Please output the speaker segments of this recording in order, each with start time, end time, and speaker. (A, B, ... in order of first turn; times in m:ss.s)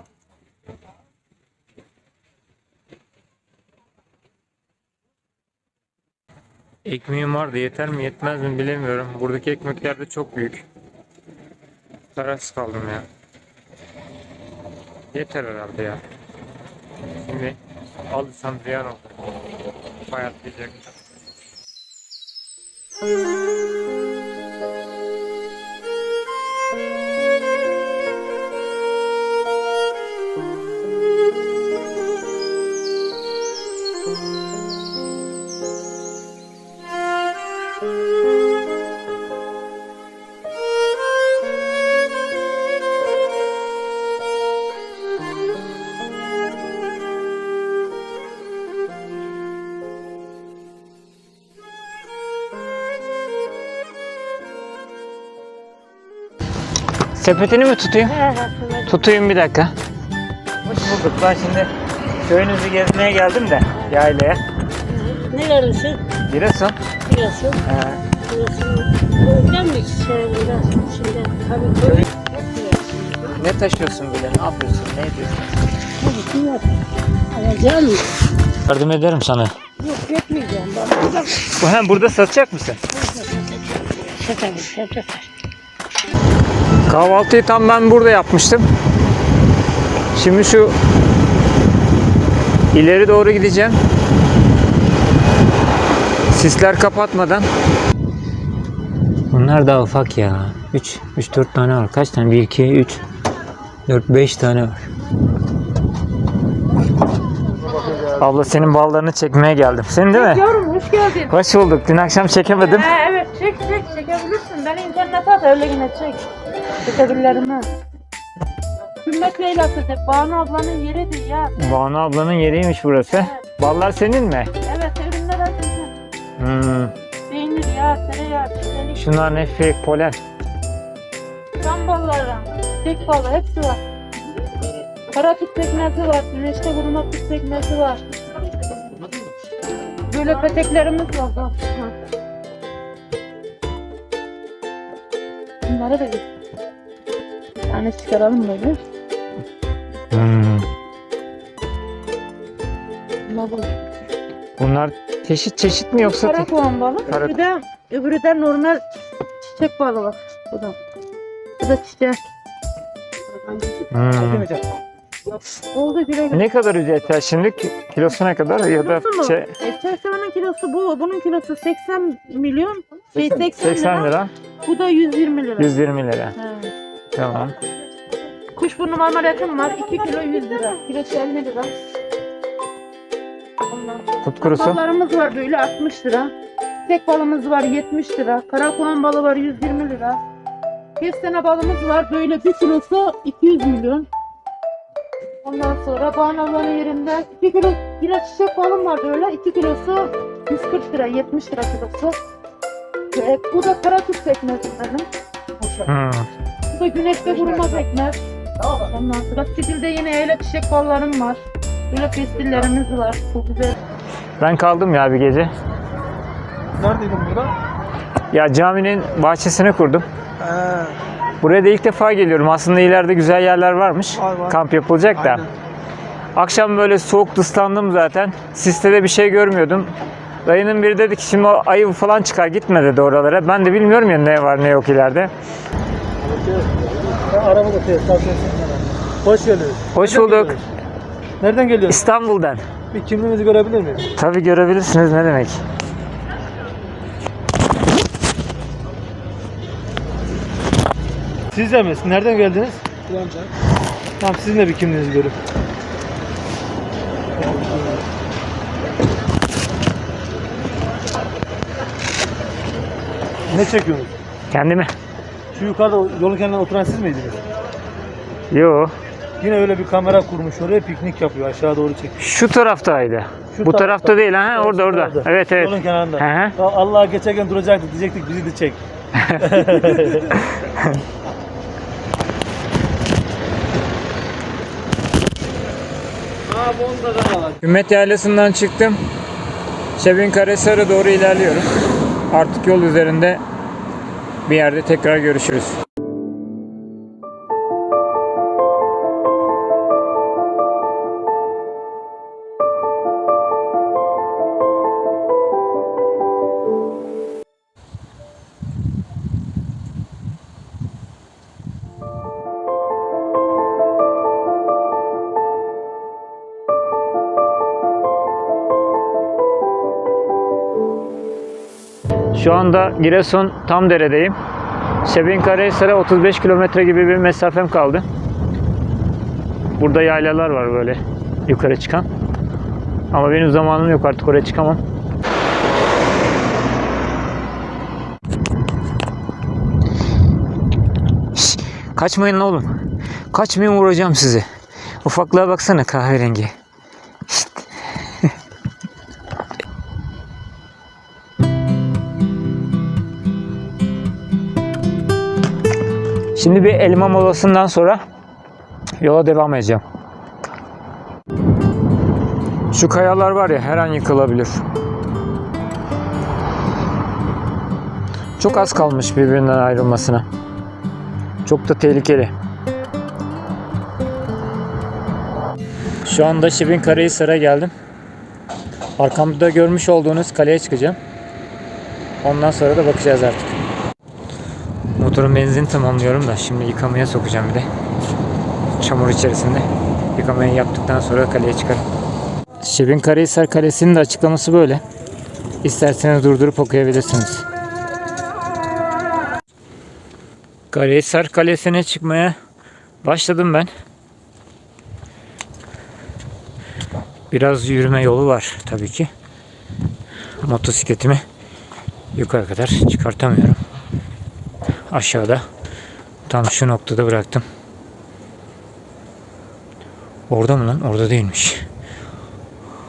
0:06.8-0:10.6 A
0:12.2-0:13.1 A
0:15.1-0:16.0 A
0:17.2-0:17.6 A
0:18.1-0:19.2 A
0:20.1-0:20.9 A
0:57.2-0:58.2 A
0:58.1-0:59.0 B
0:58.9-0:59.7 A
1:00.6-1:01.7 A
1:02.2-1:04.4 A
1:04.9-1:06.0 B
1:06.3-1:06.8 A
1:07.1-1:07.6 B
1:07.6-1:08.0 A
1:08.3-1:13.4 B
1:13.4-1:15.6 A
1:16.0-1:16.8 B
1:17.3-1:18.0 B
1:18.7-1:19.6 A
1:19.8-1:21.4 B
1:21.6-1:22.8 A
1:22.9-1:25.3 B
1:26.9-1:28.7 A
1:30.1-1:30.8 A
1:32.7-1:33.8 A
1:36.3-1:37.5 A
1:39.3-1:43.0 A
1:43.9-1:44.8 A
1:47.8-1:48.0 C
1:48.2-1:50.5 A
1:50.1-1:51.3 D
1:51.3-1:52.9 A
1:52.6-1:56.2 D
1:56.8-1:57.7 D
1:59.0-2:01.6 D
2:01.6-2:04.5 A
2:04.6-2:05.9 D
2:06.4-2:06.9 A
2:07.3-2:09.4 D
2:09.0-2:10.2 A
2:11.6-2:13.8 D
2:15.1-2:18.0 D
2:20.1-2:21.9 D
2:25.7-2:26.3 D
2:27.7-2:28.8 D
2:30.1-2:30.7 A
2:33.3-2:33.7 D
2:34.6-2:36.5 A
2:36.0-2:38.8 D
2:37.1-2:37.4 A
2:39.5-2:40.8 D
2:41.6-2:42.3 D
2:43.9-2:44.5 A
2:45.7-2:46.4 D
2:46.3-2:49.5 A
2:48.8-2:54.1 D
2:53.6-2:54.3 A
2:54.6-2:55.7 D
2:55.6-2:56.4 A
2:56.4-2:56.7 D
2:57.1-2:57.6 A
2:58.6-3:01.7 D
3:03.7-3:06.3 D
3:04.2-3:04.8 A
3:06.9-3:10.2 D
3:11.0-3:14.1 D
3:15.4-3:22.2 D
3:23.1-3:25.1 D
3:25.8-3:26.3 A
3:26.7-3:28.2 D
3:28.7-3:33.8 D
3:34.4-3:35.5 A
3:36.8-3:37.5 C
3:38.3-3:40.1 A
3:40.4-3:41.0 C
3:41.4-3:45.4 A
3:44.2-3:44.5 C
3:45.2-3:45.5 C
3:46.4-3:49.9 A
3:50.4-3:55.3 A
3:56.2-4:00.7 C
3:59.9-4:00.6 A
4:01.4-4:02.0 C
4:01.9-4:02.6 A
4:02.9-4:04.0 C
4:04.2-4:05.6 A
4:11.5-4:13.5 C
4:14.2-4:15.4 C
4:17.4-4:18.0 C
4:23.5-4:24.1 C
4:24.5-4:24.9 A
4:25.5-4:27.4 C
4:28.5-4:28.9 A
4:29.4-4:32.2 C
4:32.2-4:36.6 A
4:33.5-4:38.8 C
4:39.2-4:41.0 A
4:39.4-4:40.3 C
4:46.8-4:47.2 C
4:47.6-4:49.0 A
4:50.0-4:51.7 A
4:52.3-4:53.4 A
4:54.5-4:55.8 A
5:22.3-5:24.4 A
5:25.0-5:28.0 A
5:29.8-5:32.1 A
5:33.1-5:34.8 A
5:41.3-5:42.7 A
5:43.3-5:44.5 A
5:45.0-5:46.5 A
5:47.3-5:47.7 A
5:56.4-5:58.0 A
5:59.0-5:59.8 A
6:02.7-6:04.6 A
6:08.4-6:10.3 A
6:11.4-6:12.3 A
6:16.0-6:17.7 A
6:19.0-6:21.0 A
6:22.2-6:23.6 A
6:25.0-6:27.7 A
6:28.8-6:31.8 A
6:32.6-6:34.8 A
6:35.6-6:37.4 A
6:40.7-6:42.4 A
6:43.0-6:43.7 A
6:47.3-6:49.1 A
6:50.4-6:51.2 A
6:52.2-6:53.6 A
6:54.9-6:55.4 A
6:56.3-6:57.4 A
7:00.3-7:01.6 A